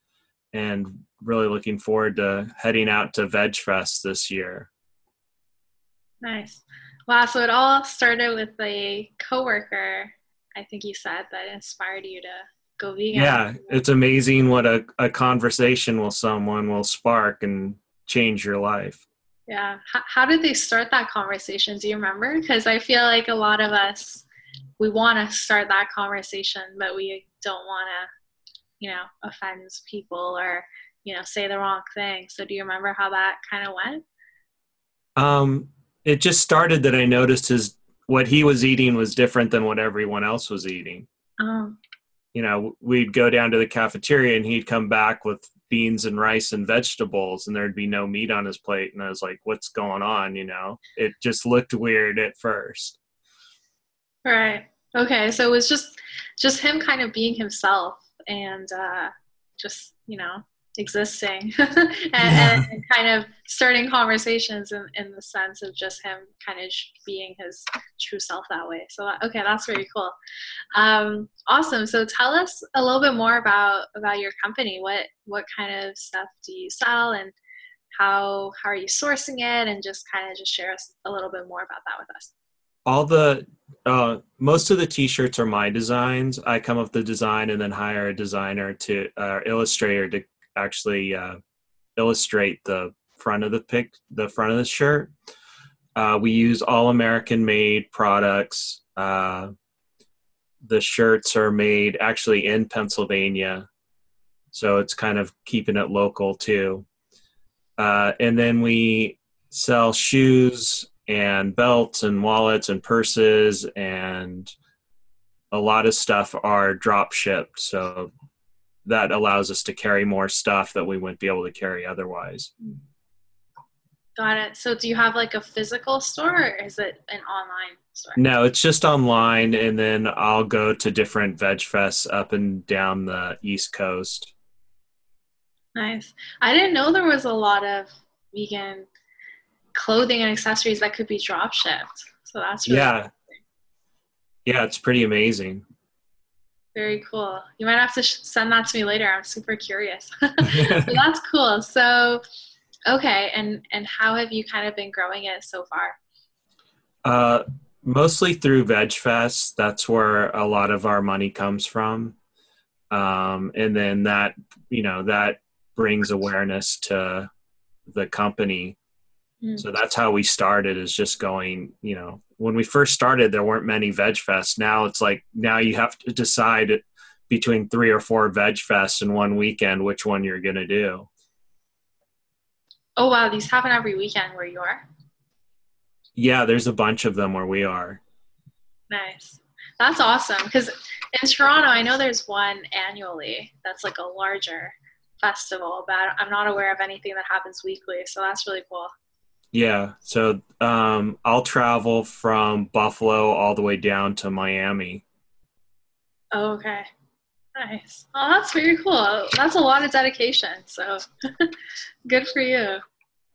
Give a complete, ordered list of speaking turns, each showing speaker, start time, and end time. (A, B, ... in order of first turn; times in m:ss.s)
0:00.5-0:04.7 A
0:06.2-0:13.8 B
0:13.1-0:19.0 A
0:19.5-0:24.3 B
0:24.8-0:28.1 B
0:28.8-0:34.0 B
0:35.2-0:41.1 A
0:41.4-0:41.8 B
0:42.3-0:53.0 A
0:54.2-1:10.2 B
1:02.2-1:02.6 A
1:10.7-1:17.4 B
1:18.0-1:22.3 B
1:22.8-1:31.4 A
1:32.0-1:35.1 A
1:36.0-1:39.5 A
1:40.6-1:43.7 A
1:44.5-1:46.9 A
1:47.8-1:54.5 A
1:55.5-1:58.1 A
1:58.8-2:02.5 A
2:04.2-2:08.2 B
2:08.2-2:14.3 A
2:15.8-2:18.9 B
2:19.7-2:23.1 B
2:22.7-2:23.1 A
2:24.5-2:25.6 A
2:26.8-2:32.2 B
2:30.4-2:31.0 A
2:32.9-2:36.0 B
2:37.0-2:42.2 A
2:42.9-2:47.3 A
2:47.9-2:48.8 A
2:49.6-3:01.1 A
3:03.0-3:04.8 B
3:06.2-3:08.0 A
3:08.9-3:18.9 B
3:19.5-3:25.0 A
3:26.3-3:26.9 B
3:27.6-3:32.8 B